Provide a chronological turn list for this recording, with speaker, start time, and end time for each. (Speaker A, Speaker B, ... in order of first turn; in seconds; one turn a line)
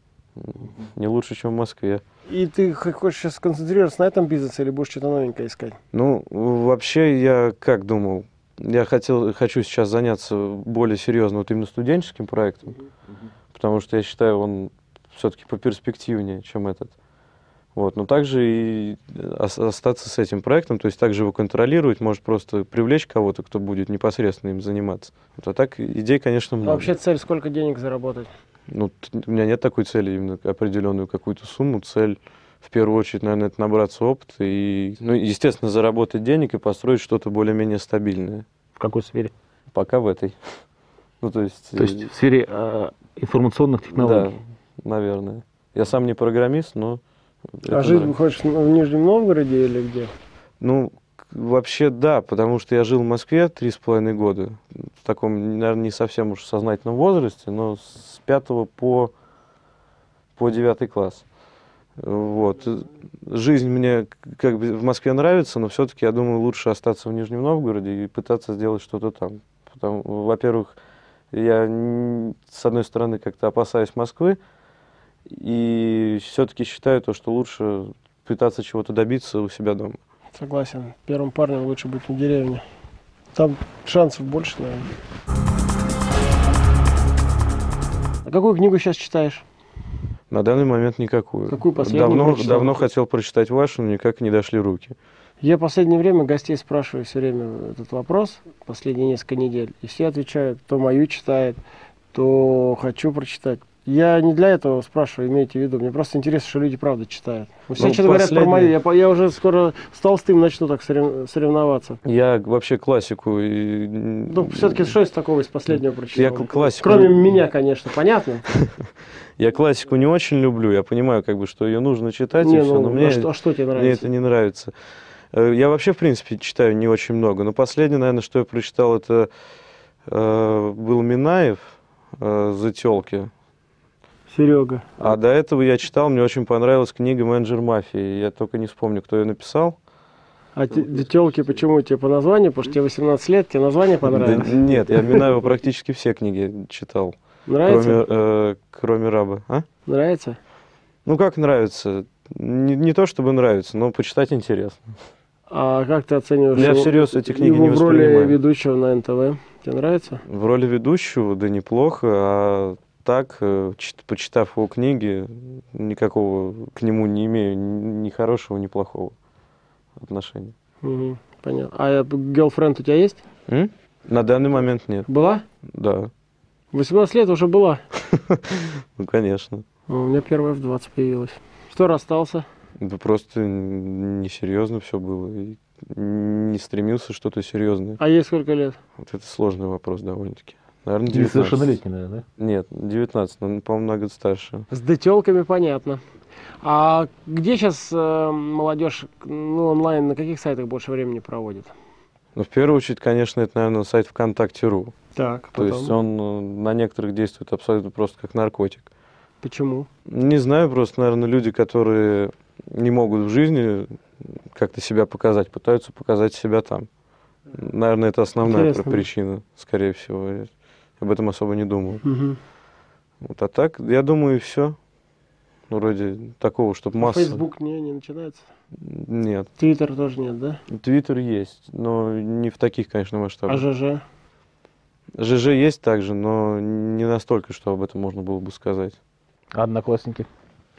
Speaker A: 0.4-2.0
Speaker B: 2.3-5.8
Speaker A: 5.9-12.7
Speaker A: 13.5-16.9
Speaker A: 17.8-26.9
Speaker B: 26.6-28.3
Speaker A: 28.7-38.4
Speaker C: 38.8-39.3
Speaker A: 39.7-40.3
Speaker A: 41.2-42.1
Speaker C: 41.8-44.3
Speaker A: 43.9-47.0
Speaker A: 47.6-48.1
Speaker B: 47.7-50.1
Speaker A: 50.6-59.1
Speaker A: 60.4-61.2
Speaker A: 62.0-70.8
Speaker A: 71.3-74.4
Speaker A: 75.3-80.0
Speaker B: 80.3-82.6
Speaker B: 83.3-84.9
Speaker B: 88.2-89.5
Speaker A: 90.3-94.9
Speaker B: 91.5-92.8
Speaker B: 95.4-101.6
Speaker B: 102.1-112.0
Speaker A: 107.8-108.7
Speaker A: 112.0-114.9
Speaker B: 114.3-118.4
Speaker A: 116.1-117.3
Speaker A: 119.4-124.7
Speaker B: 122.4-124.1
Speaker A: 125.3-129.3
Speaker A: 130.1-133.3
Speaker B: 134.3-134.8
Speaker A: 135.0-139.8
Speaker B: 140.6-145.2
Speaker A: 144.0-149.7
Speaker B: 147.4-148.0
Speaker B: 149.8-150.4
Speaker A: 151.1-154.9
Speaker B: 155.5-160.2
Speaker A: 156.5-158.4
Speaker A: 160.3-169.1
Speaker A: 170.0-170.5
Speaker B: 170.8-173.2
Speaker A: 173.5-175.1
Speaker B: 175.1-175.4
Speaker A: 175.7-176.1
Speaker B: 176.7-177.8
Speaker A: 178.3-179.6
Speaker B: 179.9-182.4
Speaker A: 182.8-188.0
Speaker B: 188.0-188.8
Speaker A: 189.0-191.8
Speaker C: 191.1-192.2
Speaker A: 192.4-194.6
Speaker B: 194.7-196.0
Speaker B: 196.6-201.7
Speaker A: 202.3-204.9
Speaker B: 205.1-205.9
Speaker A: 205.5-208.9
Speaker B: 209.4-209.9
Speaker A: 210.1-213.9
Speaker A: 214.5-216.9
Speaker A: 217.5-220.5
Speaker B: 218.4-219.1
Speaker A: 221.0-222.0
Speaker B: 222.0-222.4
Speaker A: 223.2-224.8
Speaker A: 225.7-227.4
Speaker B: 227.0-228.4
Speaker A: 228.8-229.5
Speaker B: 229.6-230.6
Speaker A: 230.7-233.6
Speaker B: 233.5-234.0
Speaker A: 235.2-239.0
Speaker C: 239.5-240.3